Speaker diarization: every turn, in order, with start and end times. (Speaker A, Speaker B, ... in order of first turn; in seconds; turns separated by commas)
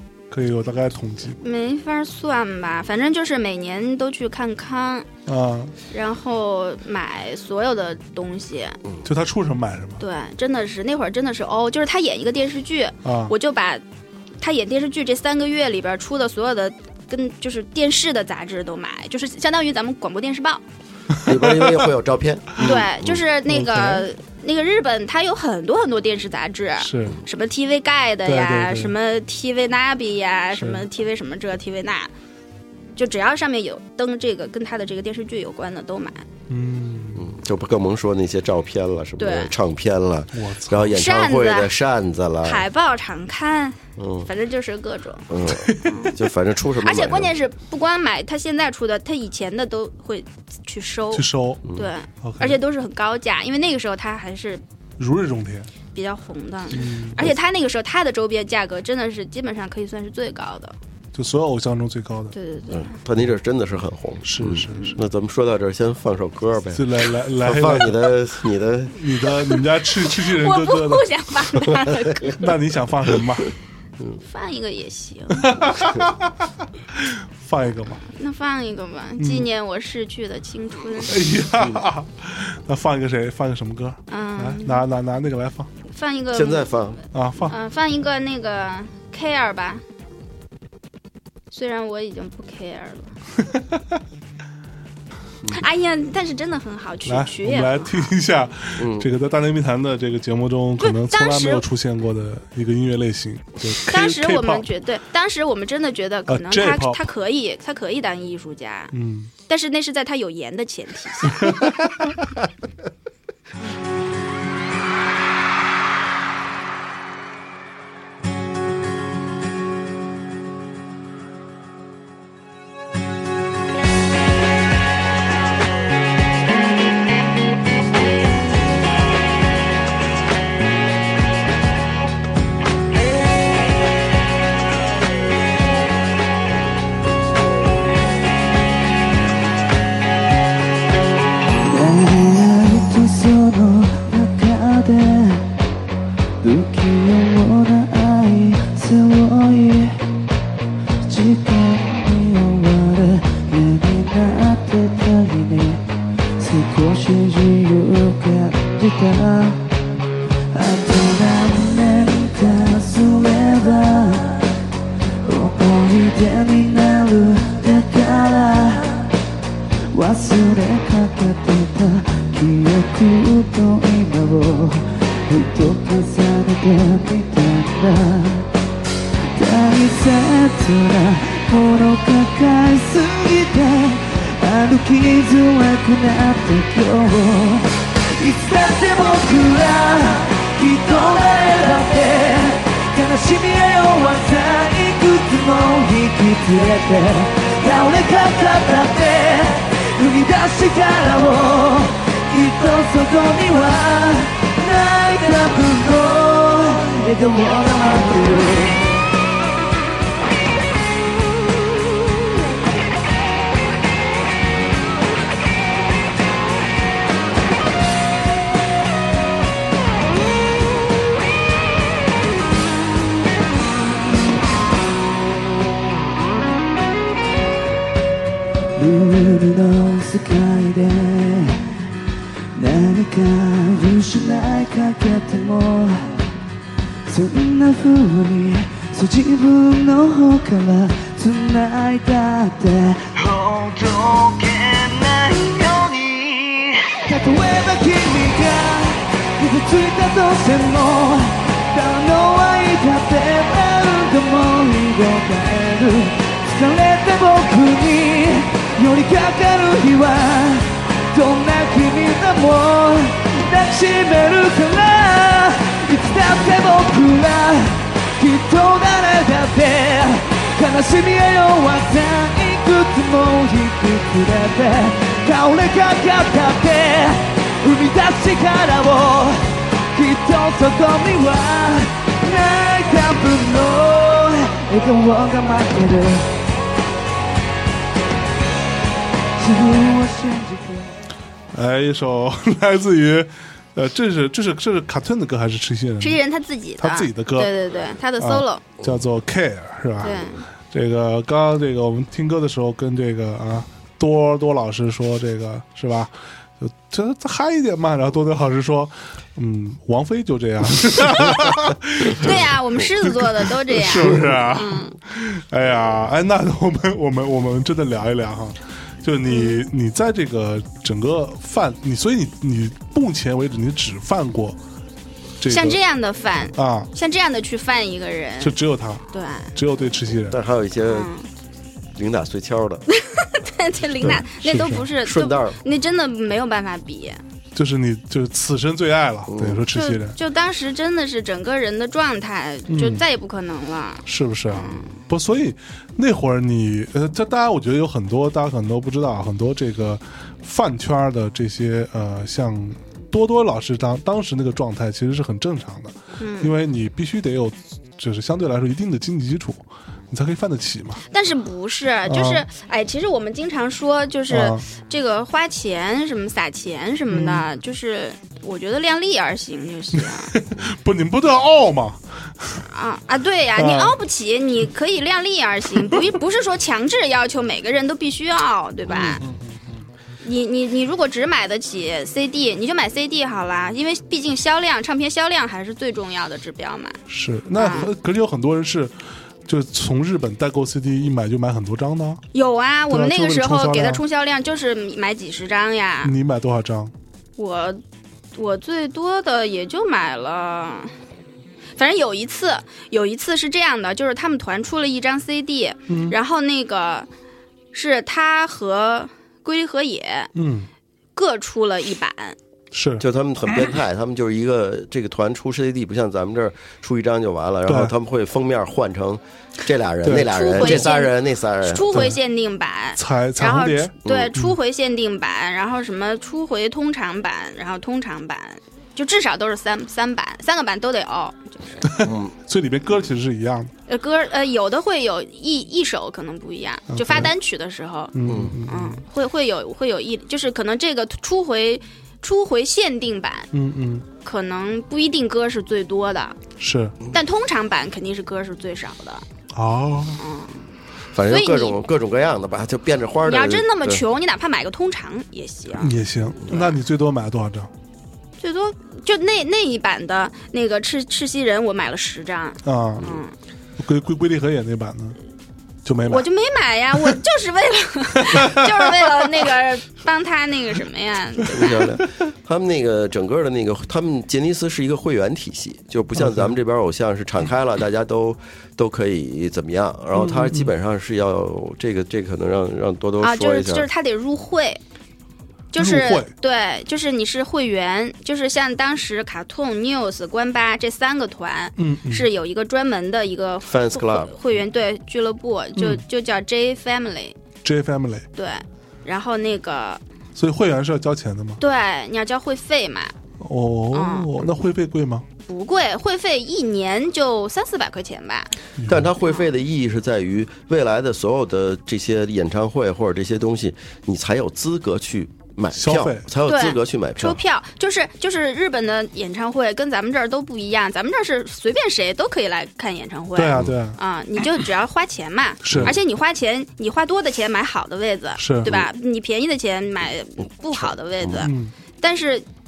Speaker A: 0.3-1.4, Speaker B: 1.4-5.1, Speaker A: 5.3-5.7, Speaker B: 5.9-8.8, Speaker A: 9.1-10.0, Speaker B: 10.0-13.8, Speaker A: 13.1-13.3, Speaker B: 14.4-20.6, Speaker A: 21.2-21.8, Speaker C: 21.2-23.2, Speaker B: 22.6-32.1, Speaker A: 23.5-24.1, Speaker A: 26.8-27.2, Speaker A: 28.2-28.9, Speaker A: 30.6-30.8, Speaker B: 33.0-36.3, Speaker A: 36.5-37.3, Speaker C: 37.1-42.6, Speaker B: 39.2-39.5, Speaker A: 40.4-41.0, Speaker B: 40.9-41.7, Speaker B: 42.4-46.2, Speaker C: 44.0-44.3, Speaker C: 45.3-47.4, Speaker A: 45.5-45.9, Speaker B: 46.8-54.6, Speaker A: 51.1-51.6, Speaker A: 52.2-52.6, Speaker A: 55.0-55.7, Speaker B: 55.9-60.8, Speaker A: 56.7-57.2, Speaker A: 61.1-62.3, Speaker B: 62.3-63.0, Speaker C: 62.7-69.1, Speaker A: 64.2-65.0, Speaker A: 66.7-68.1, Speaker A: 68.9-73.5, Speaker B: 70.0-72.5, Speaker B: 74.2-75.9, Speaker A: 75.4-76.3, Speaker A: 76.9-78.0, Speaker B: 78.1-81.2, Speaker A: 79.2-79.5, Speaker A: 81.1-85.7, Speaker B: 84.1-84.8, Speaker B: 85.9-86.7, Speaker C: 86.3-87.0, Speaker A: 87.1-87.5, Speaker B: 87.5-89.8, Speaker B: 91.5-93.2, Speaker A: 93.4-94.0, Speaker B: 95.5-98.1, Speaker A: 97.1-104.7, Speaker C: 98.8-99.1, Speaker B: 100.8-101.7, Speaker B: 103.9-108.9, Speaker A: 106.3-107.1, Speaker A: 108.9-109.3, Speaker B: 109.5-111.7, Speaker A: 111.3-111.8, Speaker D: 141.6-145.4, Speaker D: 146.4-149.9, Speaker D: 151.1-155.8, Speaker D: 156.4-159.6, Speaker D: 160.5-164.4, Speaker D: 165.3-169.1, Speaker D: 169.9-174.8, Speaker D: 175.3-178.5, Speaker D: 179.4-187.7, Speaker D: 188.2-208.8, Speaker D: 228.8-231.7, Speaker D: 232.6-236.1, Speaker D: 237.1-279.4, Speaker D: 280.0-286.3, Speaker D: 289.4-290.9, Speaker A: 291.5-296.2, Speaker B: 296.0-298.6, Speaker A: 296.8-297.5, Speaker A: 298.2-324.6, Speaker B: 300.0-300.5, Speaker B: 312.1-315.0, Speaker B: 319.3-319.7, Speaker A: 325.4-325.8, Speaker B: 325.5-328.6, Speaker A: 326.5-326.9, Speaker A: 328.4-330.4, Speaker B: 329.1-329.5, Speaker C: 330.3-331.1, Speaker B: 330.9-331.3, Speaker C: 331.9-332.9, Speaker B: 332.9-337.2, Speaker A: 334.0-334.9, Speaker C: 335.0-335.6, Speaker A: 337.6-340.2, Speaker C: 339.3-339.6, Speaker B: 339.7-344.9, Speaker A: 342.7-343.0, Speaker A: 344.1-361.0, Speaker B: 356.2-356.5, Speaker B: 361.1-370.3, Speaker A: 362.1-362.4, Speaker A: 364.3-364.6, Speaker A: 367.1-367.4, Speaker A: 370.0-372.6, Speaker B: 372.7-379.2, Speaker A: 373.6-374.0, Speaker A: 378.9-379.8, Speaker B: 380.2-387.0, Speaker A: 387.1-388.9, Speaker B: 387.6-387.9, Speaker A: 389.5-392.2, Speaker B: 392.3-396.1, Speaker A: 392.9-394.0, Speaker A: 396.0-396.9, Speaker B: 397.4-397.8, Speaker B: 398.4-400.9, Speaker B: 401.8-407.1, Speaker A: 405.9-406.2, Speaker B: 407.7-410.3, Speaker A: 410.4-410.7, Speaker B: 411.2-412.4, Speaker A: 412.7-413.0, Speaker C: 413.0-422.1, Speaker A: 417.7-417.9, Speaker A: 420.0-420.9, Speaker B: 420.2-431.9, Speaker A: 421.9-422.2, Speaker A: 423.0-424.6, Speaker C: 424.1-424.3, Speaker A: 431.8-433.7, Speaker C: 432.0-432.3, Speaker B: 433.9-443.5, Speaker A: 436.9-437.3, Speaker A: 438.1-439.0, Speaker C: 438.3-438.6, Speaker A: 443.5-444.1, Speaker B: 444.2-446.4, Speaker A: 446.6-447.0, Speaker B: 447.1-449.2, Speaker A: 449.5-450.2, Speaker B: 450.2-450.6, Speaker C: 451.1-454.0, Speaker B: 451.3-451.8, Speaker B: 453.2-455.9, Speaker A: 455.8-457.7, Speaker B: 458.4-463.3, Speaker A: 462.6-463.1, Speaker A: 463.8-465.2, Speaker A: 465.9-466.3, Speaker B: 466.1-471.9, Speaker A: 468.3-468.7, Speaker C: 471.5-483.9, Speaker A: 476.2-476.5, Speaker A: 480.1-480.7, Speaker B: 483.2-484.8, Speaker B: 485.7-497.4, Speaker A: 485.8-486.3, Speaker A: 491.8-492.3, Speaker C: 493.7-494.4, Speaker A: 495.8-496.0, Speaker A: 497.6-498.3, Speaker B: 498.4-500.0, Speaker A: 500.4-501.6, Speaker B: 501.6-503.1, Speaker A: 503.4-505.3, Speaker B: 503.9-504.4, Speaker B: 505.5-508.5, Speaker A: 508.8-509.1, Speaker C: 508.9-517.4, Speaker A: 515.7-516.3, Speaker B: 516.4-532.5, Speaker A: 523.4-524.0, Speaker A: 525.6-526.0, Speaker A: 528.4-528.8, Speaker A: 531.4-531.7